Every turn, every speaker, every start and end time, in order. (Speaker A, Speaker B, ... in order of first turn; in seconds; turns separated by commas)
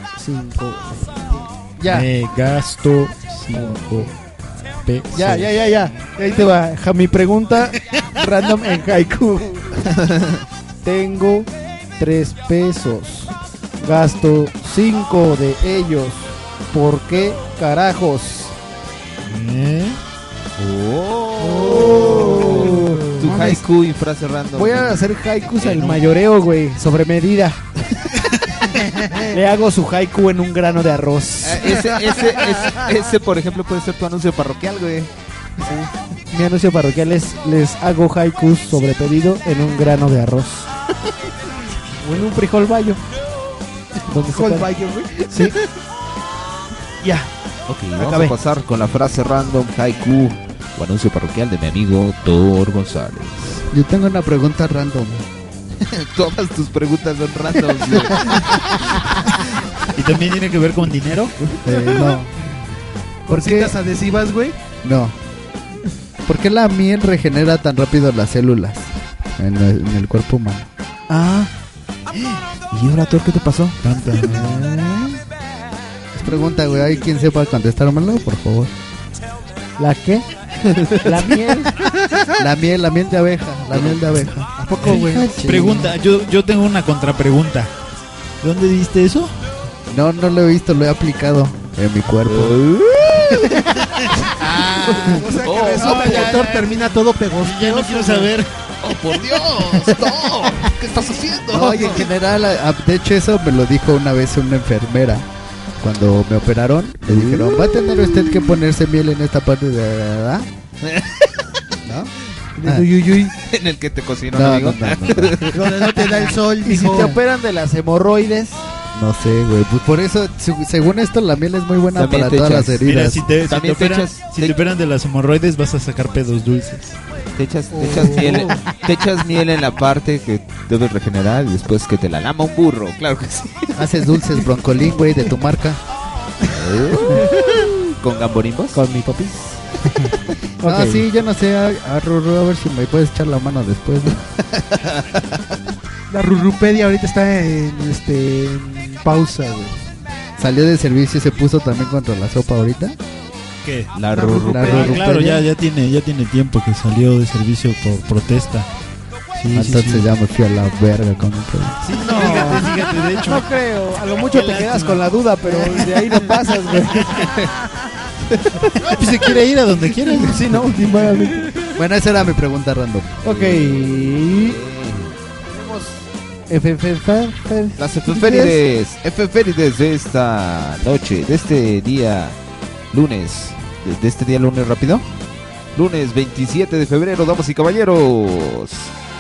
Speaker A: 0.1-1.5, Speaker B: 1.8-2.1, Speaker C: 1.9-4.1, Speaker A: 3.5-4.1, Speaker C: 4.8-5.5, Speaker A: 5.1-9.9, Speaker D: 10.0-10.4, Speaker A: 10.8-18.6, Speaker C: 19.2-20.0, Speaker D: 20.6-26.0, Speaker A: 21.4-23.6, Speaker A: 24.6-27.6, Speaker A: 29.1-32.1, Speaker D: 31.4-35.1, Speaker A: 35.6-40.7, Speaker A: 42.0-43.0, Speaker A: 44.1-44.7, Speaker E: 44.3-45.5, Speaker A: 45.3-45.6, Speaker A: 47.0-47.3, Speaker D: 47.7-53.7, Speaker A: 48.0-48.3, Speaker B: 53.7-55.3, Speaker D: 55.8-59.0, Speaker C: 59.9-61.3, Speaker B: 61.6-62.4, Speaker E: 63.3-64.6, Speaker B: 63.3-63.8, Speaker B: 64.8-65.2, Speaker B: 66.2-71.5, Speaker D: 72.7-74.5, Speaker C: 73.8-74.4, Speaker B: 74.2-74.7, Speaker B: 76.1-78.7, Speaker A: 79.8-81.7, Speaker B: 82.4-85.9, Speaker D: 83.7-84.2, Speaker A: 84.7-85.2, Speaker C: 84.8-87.7, Speaker C: 88.4-89.3, Speaker B: 89.9-92.6, Speaker D: 92.3-93.8, Speaker C: 94.4-98.5, Speaker B: 94.4-95.2, Speaker E: 95.0-98.3, Speaker D: 95.2-96.3, Speaker D: 98.8-102.1, Speaker B: 101.5-105.3, Speaker B: 105.8-110.5, Speaker D: 107.1-108.1, Speaker D: 110.8-111.3, Speaker B: 111.8-112.9, Speaker A: 112.6-113.3, Speaker D: 113.4-115.7, Speaker B: 114.3-115.5, Speaker E: 115.5-117.2, Speaker A: 116.6-118.7, Speaker B: 118.9-123.3, Speaker D: 121.9-122.8, Speaker C: 122.8-127.0, Speaker D: 123.4-124.6, Speaker D: 127.4-133.8, Speaker E: 127.8-128.5, Speaker B: 133.8-135.8, Speaker D: 136.4-138.8, Speaker A: 138.7-139.7, Speaker A: 140.6-141.0, Speaker B: 140.6-144.2, Speaker D: 144.8-145.2, Speaker E: 146.1-149.8, Speaker B: 150.4-153.0, Speaker C: 153.6-158.7, Speaker D: 153.9-155.0, Speaker B: 154.2-155.4, Speaker C: 159.3-160.1, Speaker B: 159.5-162.1, Speaker C: 161.8-163.4, Speaker A: 162.0-167.3, Speaker C: 164.2-165.0, Speaker C: 168.8-170.4, Speaker A: 170.2-171.5, Speaker B: 171.8-173.2, Speaker A: 173.2-174.6, Speaker D: 173.2-175.2, Speaker A: 175.4-178.6, Speaker D: 177.8-182.4, Speaker D: 182.9-185.1, Speaker D: 185.8-188.9